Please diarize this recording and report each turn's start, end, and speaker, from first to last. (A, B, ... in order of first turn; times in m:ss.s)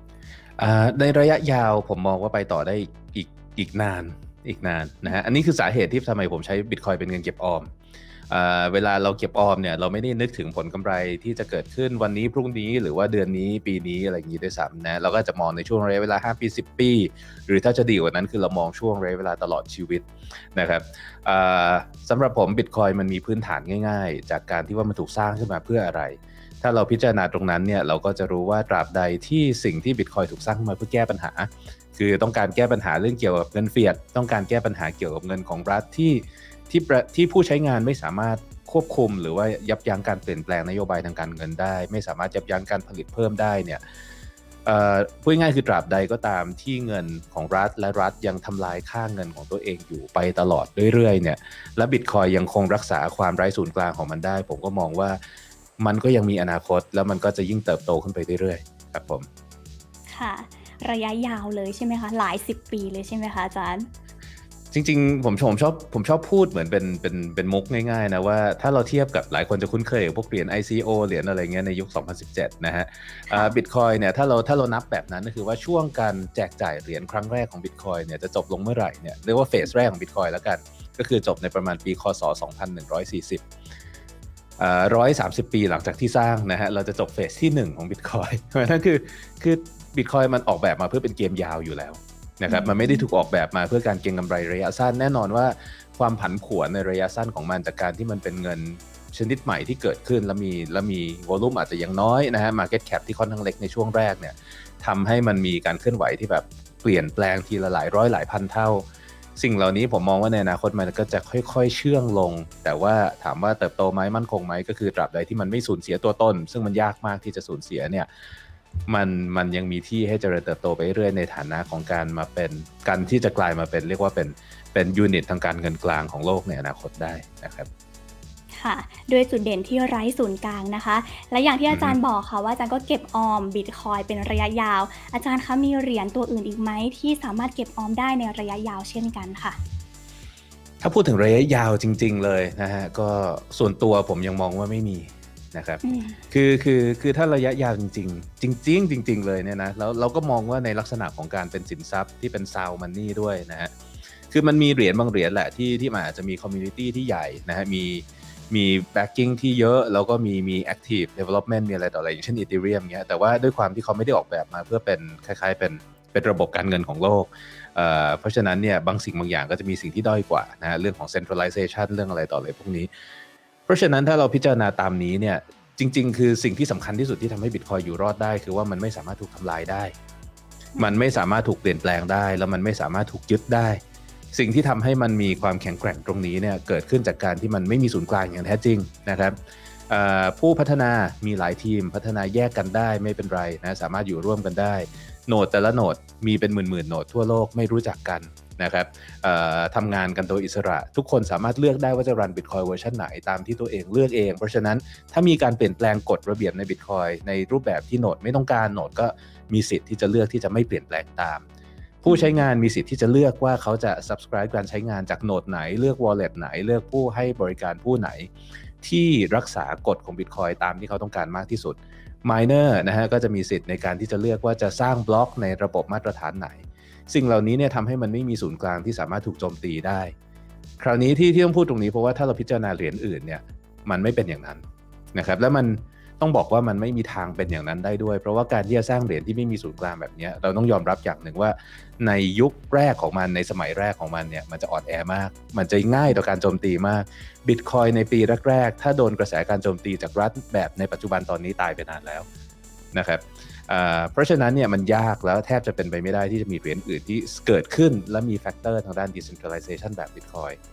0:00.6-0:07.7 A
0:08.3-0:43.8 A
0:44.7-0:55.2 A
0:55.8-0:59.3 A
1:00.1-1:03.9 B
1:04.7-1:23.4 A
1:13.3-1:13.6 B
1:24.6-1:48.9 A
1:32.5-1:33.1 B
1:49.4-1:58.1 A
1:58.9-2:07.7 A
2:08.5-2:19.6 B
2:11.7-2:12.0 A
2:20.8-2:33.7 A
2:25.8-2:26.2 B
2:34.3-2:52.9 A
2:53.7-2:59.9 A
3:00.8-3:03.8 A
3:04.3-3:09.4 A
3:09.9-3:31.4 A
3:32.0-3:38.3 A
3:32.1-3:32.4 B
3:38.8-3:50.1 A
3:50.8-3:54.6 A
3:55.1-4:12.3 A
4:12.9-4:20.6 A